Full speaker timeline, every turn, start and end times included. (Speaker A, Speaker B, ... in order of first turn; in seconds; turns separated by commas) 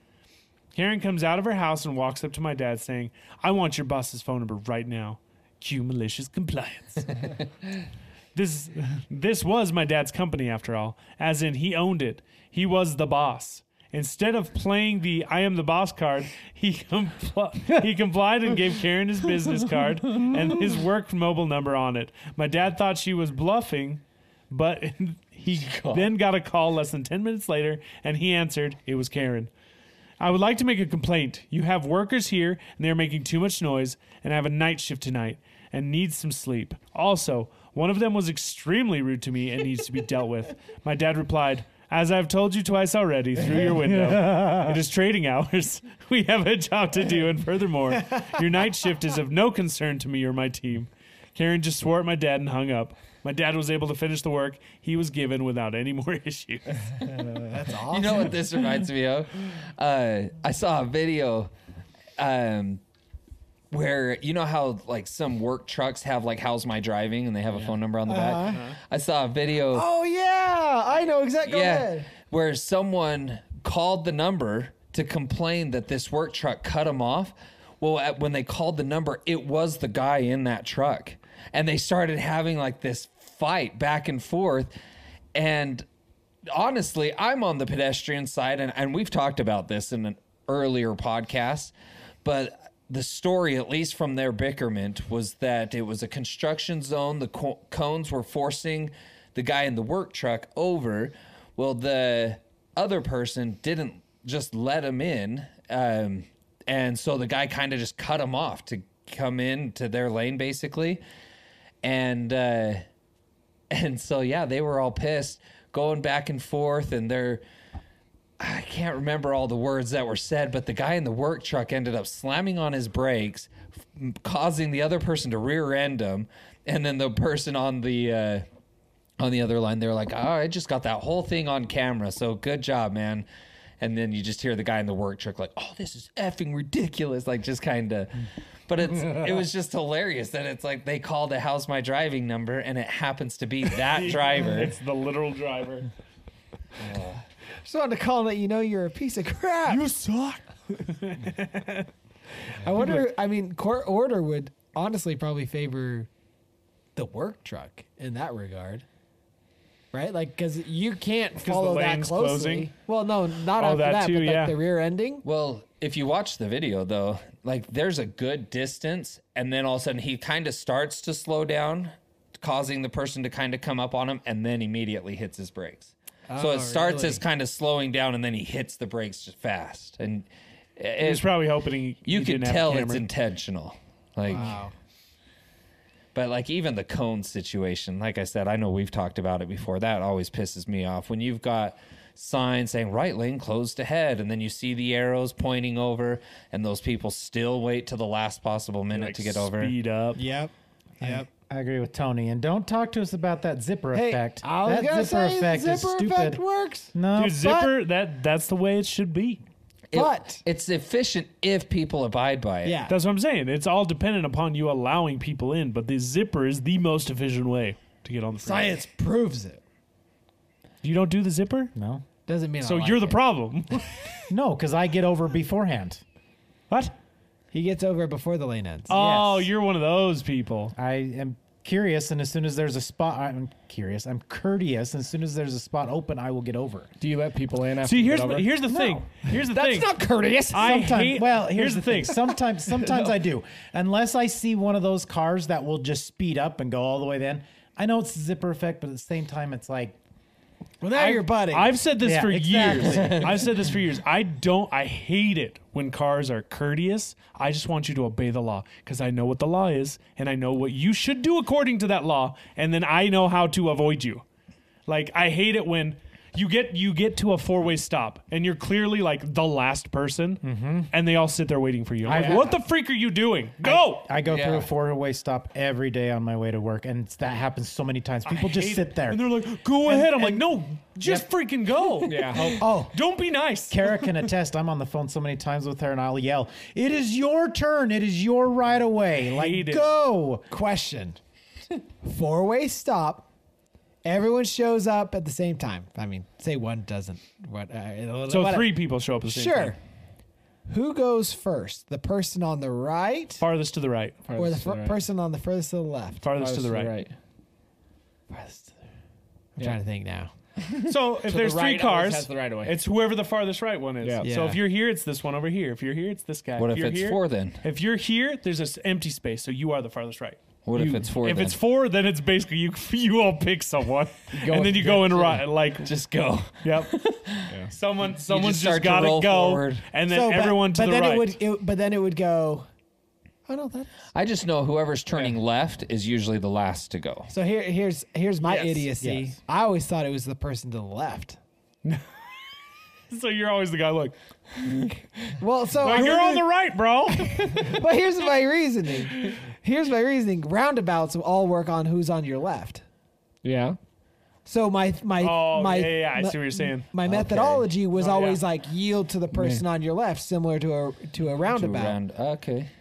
Speaker A: 0.7-7.3, Speaker A: 8.3-29.5, Speaker B: 25.5-26.1, Speaker A: 30.2-56.9, Speaker C: 43.4-44.8, Speaker D: 57.1-58.4, Speaker B: 57.9-61.5, Speaker B: 62.2-62.8, Speaker B: 63.7-69.9, Speaker D: 68.1-68.7, Speaker D: 69.7-72.1, Speaker B: 71.4-84.7, Speaker B: 85.3-85.8, Speaker B: 86.5-91.7, Speaker B: 92.2-111.0, Speaker B: 111.8-112.8, Speaker B: 113.7-117.4, Speaker B: 118.4-128.5, Speaker B: 129.2-133.2, Speaker B: 133.8-144.7, Speaker A: 143.9-145.9, Speaker B: 146.8-147.2, Speaker D: 147.6-149.9, Speaker A: 149.7-151.9, Speaker D: 152.6-156.1, Speaker A: 152.8-153.0, Speaker D: 157.0-158.8, Speaker D: 159.9-165.2, Speaker A: 161.4-162.7, Speaker A: 163.6-164.6, Speaker B: 165.2-181.4, Speaker D: 176.3-177.2, Speaker A: 181.0-183.0, Speaker B: 182.1-184.6, Speaker D: 184.3-184.7, Speaker B: 186.1-199.7, Speaker A: 198.9-200.2, Speaker D: 200.2-201.3, Speaker C: 201.0-206.4, Speaker D: 203.9-206.9, Speaker C: 206.9-207.7, Speaker A: 207.2-209.4, Speaker B: 209.9-212.8, Speaker D: 209.9-210.4, Speaker D: 212.6-213.0, Speaker A: 212.9-218.8, Speaker D: 218.4-219.6, Speaker A: 220.8-221.7, Speaker C: 221.8-222.0, Speaker D: 222.2-223.2, Speaker A: 222.6-224.0, Speaker C: 224.3-226.0, Speaker A: 226.7-227.0, Speaker D: 227.5-229.0, Speaker A: 228.9-230.7, Speaker C: 228.9-229.5, Speaker C: 230.8-236.9, Speaker E: 237.0-238.6, Speaker A: 237.8-240.0, Speaker C: 238.7-239.0, Speaker D: 239.5-240.8, Speaker E: 239.8-240.2, Speaker A: 240.5-242.3, Speaker C: 240.5-250.0, Speaker D: 250.8-251.8, Speaker A: 251.0-264.2, Speaker C: 252.0-253.5, Speaker A: 264.9-274.1, Speaker C: 270.4-270.9, Speaker C: 272.0-272.6, Speaker C: 273.6-279.2, Speaker B: 274.2-274.7, Speaker A: 278.2-284.0, Speaker C: 279.8-280.5, Speaker C: 281.0-281.2, Speaker E: 282.0-282.6, Speaker D: 282.6-282.9, Speaker C: 283.7-290.5, Speaker A: 289.2-289.9, Speaker D: 290.5-291.2, Speaker D: 292.0-293.3, Speaker D: 294.0-298.8, Speaker A: 298.3-299.8, Speaker D: 299.3-299.8, Speaker D: 300.7-303.4, Speaker A: 303.4-304.2, Speaker E: 304.2-305.0, Speaker D: 304.4-306.2, Speaker A: 306.2-307.0, Speaker E: 306.4-307.1, Speaker D: 309.6-310.3, Speaker E: 310.7-312.8, Speaker A: 310.9-325.9, Speaker E: 314.0-314.3, Speaker D: 314.2-314.6, Speaker B: 316.6-317.6, Speaker B: 320.6-321.6, Speaker E: 324.3-325.4, Speaker B: 325.9-327.5, Speaker A: 326.6-326.9, Speaker A: 327.7-331.3, Speaker B: 328.1-329.9, Speaker D: 330.1-332.7, Speaker D: 333.5-334.0, Speaker B: 334.1-337.3, Speaker D: 337.3-341.4, Speaker C: 339.0-339.4, Speaker A: 341.9-342.1, Speaker A: 343.1-344.2, Speaker D: 345.4-346.4, Speaker A: 345.8-347.8, Speaker D: 347.4-352.8, Speaker E: 353.4-353.8, Speaker D: 354.4-362.0, Speaker A: 355.2-356.9, Speaker B: 357.0-357.6, Speaker A: 357.9-358.4, Speaker E: 359.3-359.6, Speaker B: 361.4-362.7